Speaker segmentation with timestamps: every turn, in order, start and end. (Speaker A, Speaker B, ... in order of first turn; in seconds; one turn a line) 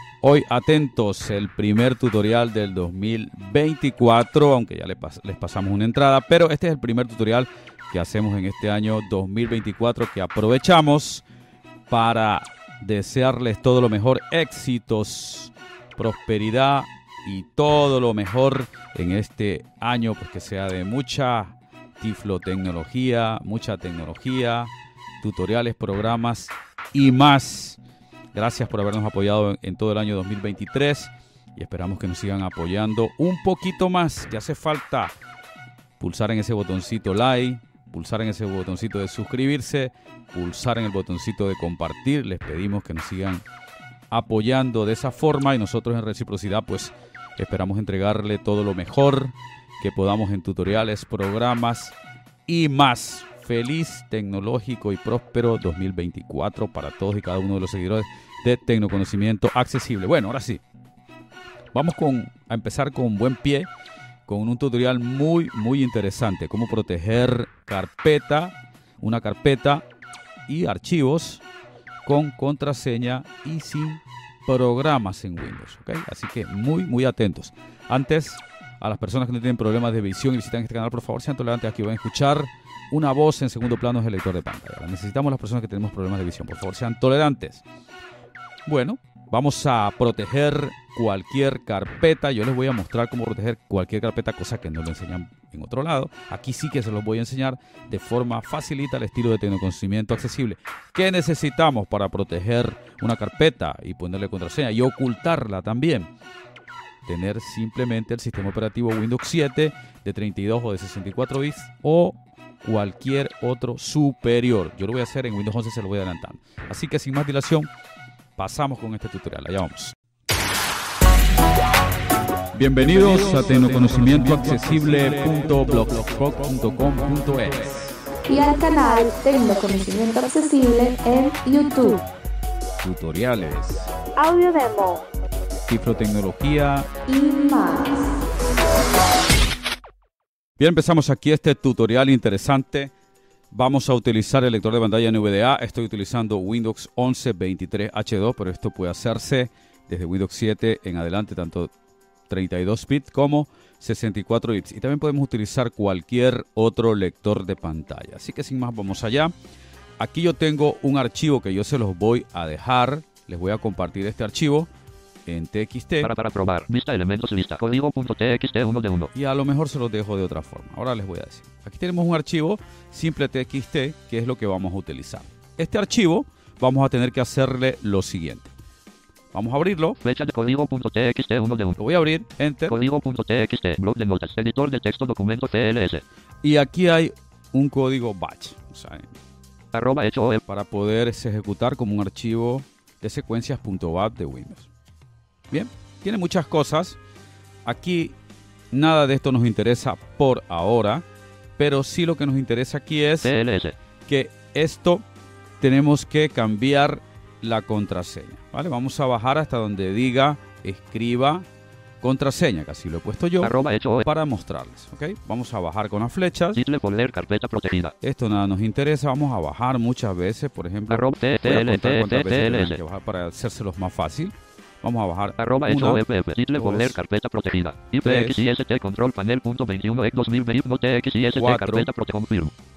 Speaker A: 0.2-11.2
Speaker A: 11.9-27.8
Speaker A: 28.3-35.1
Speaker A: 36.0-43.4
Speaker A: 44.1-51.9
Speaker A: 52.5-60.6
Speaker A: 61.7-63.7
Speaker A: 64.3-69.8
Speaker A: 70.5-71.4
Speaker A: 72.0-87.6
Speaker A: 88.7-106.1
Speaker A: 107.0-117.7
Speaker A: 118.4-119.9
Speaker A: 122.5-128.0
Speaker B: 128.3-132.0
Speaker A: 132.8-133.9
Speaker B: 134.2-135.1
Speaker A: 135.7-136.9
Speaker B: 137.1-138.2
Speaker A: 140.6-142.9
Speaker A: 143.5-151.7
Speaker A: 152.3-159.3
Speaker A: 160.0-164.7
Speaker A: 165.2-166.1
Speaker C: 166.0-169.1
Speaker A: 169.1-178.5
Speaker A: 179.3-180.0
Speaker C: 180.0-181.8
Speaker A: 181.8-182.8
Speaker C: 182.7-186.0
Speaker A: 186.4-189.1
Speaker C: 189.7-190.4
Speaker A: 190.5-194.7
Speaker A: 195.5-197.0
Speaker A: 197.7-198.2
Speaker A: 198.7-201.0
Speaker A: 201.6-203.3
Speaker C: 203.2-203.8
Speaker A: 204.1-205.0
Speaker A: 205.6-211.4
Speaker A: 212.0-216.6
Speaker C: 213.4-214.1
Speaker C: 216.6-217.9
Speaker A: 218.0-226.0
Speaker C: 220.9-222.8
Speaker C: 225.4-232.5
Speaker A: 226.5-227.0
Speaker A: 228.0-228.4
Speaker A: 231.3-231.9